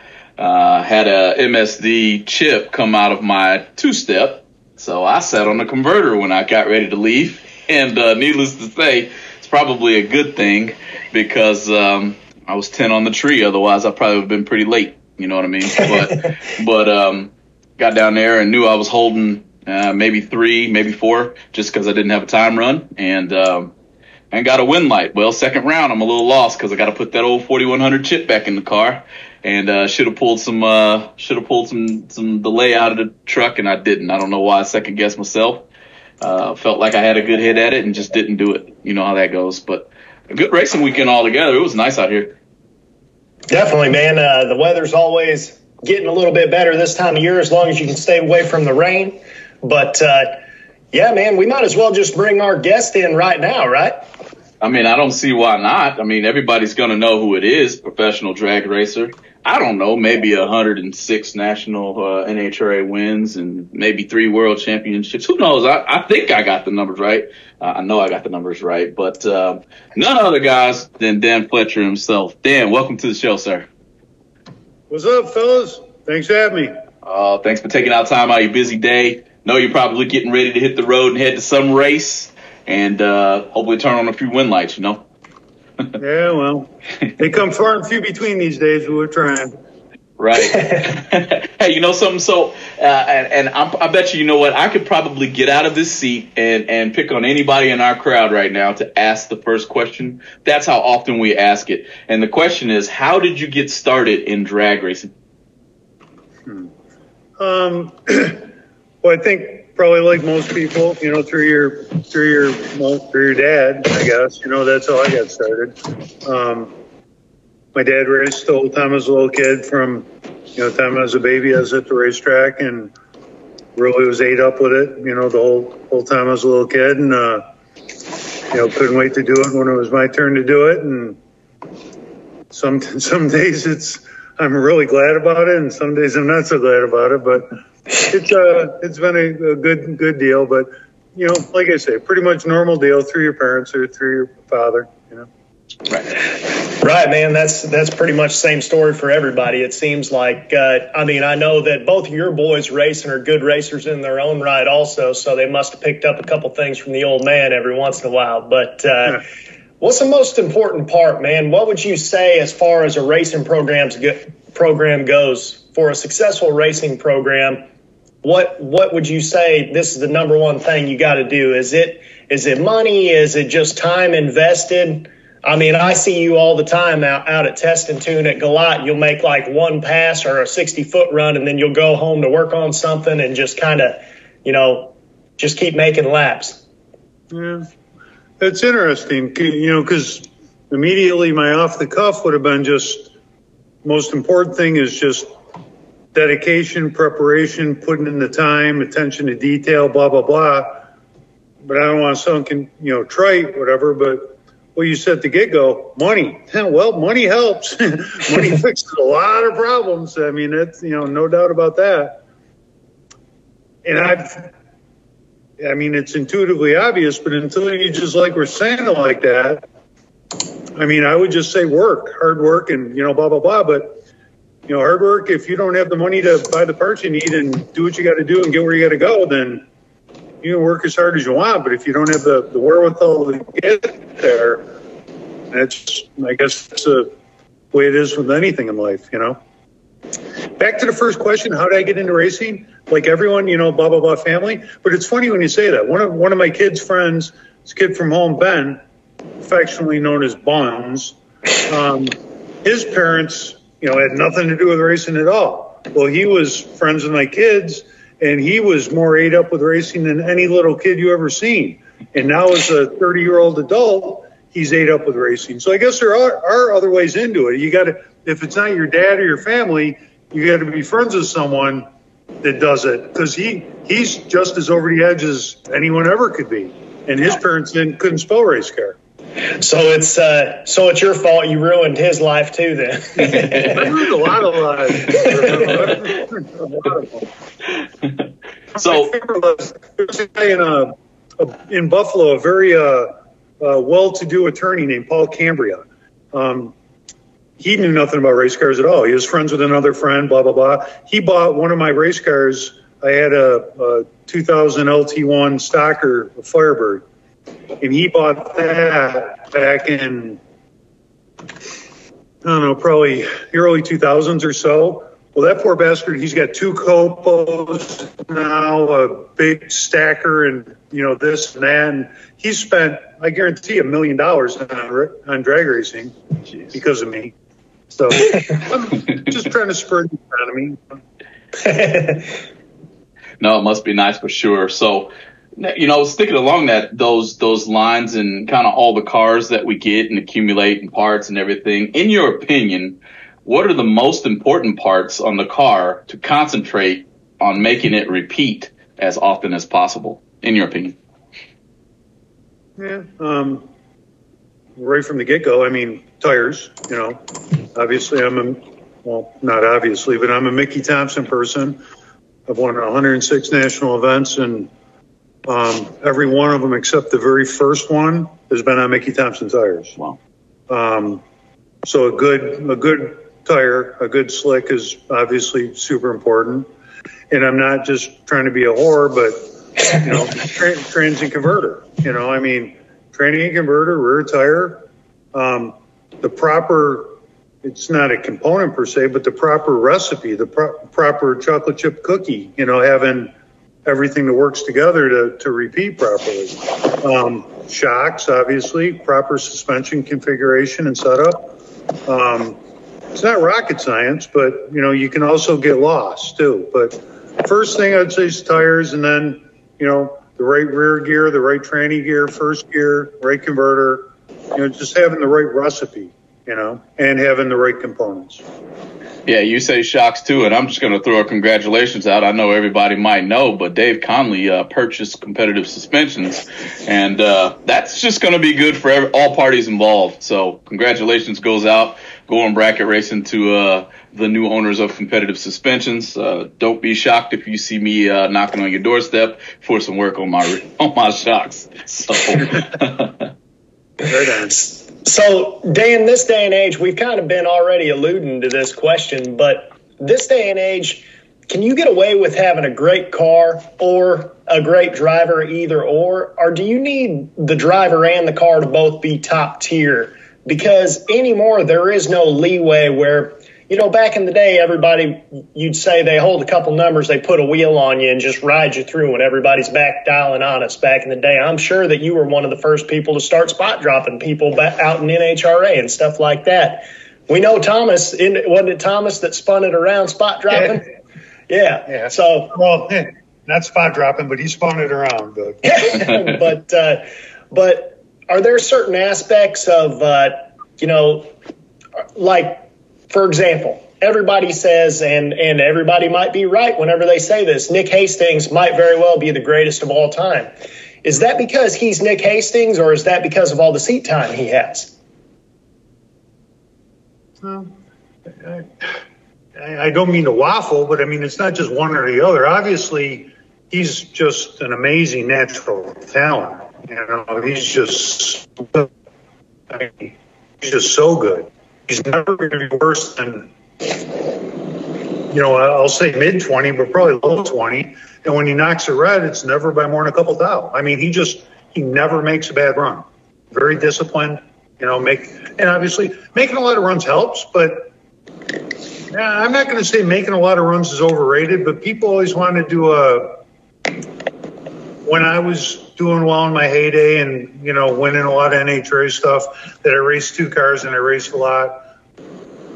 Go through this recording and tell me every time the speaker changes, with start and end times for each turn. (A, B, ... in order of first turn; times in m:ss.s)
0:00.4-0:23.7 A
0:24.3-0:35.6 A
0:36.2-0:42.4 A
0:43.5-0:54.0 B
0:54.6-1:13.7 A
1:14.9-1:16.7 C
1:17.0-1:25.0 A
1:26.0-1:29.5 C
1:30.2-1:45.1 A
1:47.4-1:48.4 C
1:49.0-1:56.7 C
1:57.7-2:02.9 C
2:03.8-2:07.4 C
2:08.5-2:11.2 C
2:12.5-2:25.3 C
2:26.7-2:39.2 B
2:39.8-2:47.6 B
2:48.2-3:06.6 B
3:07.3-3:07.6 C
3:08.4-3:13.1 C
3:13.8-3:15.3 C
3:16.1-3:20.8 C
3:21.6-3:32.2 C
3:33.8-3:34.5 C
3:35.6-3:39.6 C
3:40.8-3:44.0 C
3:44.7-3:49.6 C
3:50.4-3:54.7 C
3:55.5-3:57.1 C
3:57.7-3:59.4 C
4:00.6-4:08.8 C
4:09.4-4:31.9 C
4:32.4-4:39.0 C
4:39.6-4:43.7 B
4:43.4-4:43.8 A
4:43.5-4:47.3 C
4:48.7-4:56.7 C
4:48.8-4:49.1 A
4:57.6-5:07.0 C
5:07.8-5:10.4 C
5:12.4-5:26.2 C
5:26.7-5:27.3 C
5:27.9-5:30.8 C
5:31.6-5:32.3 B
5:33.4-5:51.0 A
5:52.8-5:53.6 C
5:54.8-5:57.2 C
5:57.7-6:01.8 C
6:02.5-6:04.7 C
6:05.4-6:10.0 C
6:10.7-6:11.2 C
6:11.8-6:16.7 C
6:17.3-6:33.3 C
6:33.8-6:41.5 C
6:42.0-6:42.6 C
6:43.1-6:58.4 C
6:59.2-7:23.3 A
7:24.0-7:24.6 C
7:24.5-8:00.9 B
8:01.5-8:02.6 B
8:01.9-8:05.6 C
8:05.6-8:11.3 B
8:12.1-8:20.5 B
8:21.0-8:24.9 B
8:27.4-8:27.7 C
8:28.4-8:28.9 C
8:29.6-8:38.9 C
8:39.7-8:43.5 C
8:45.3-8:57.9 C
8:59.1-9:03.4 C
9:05.0-9:11.8 C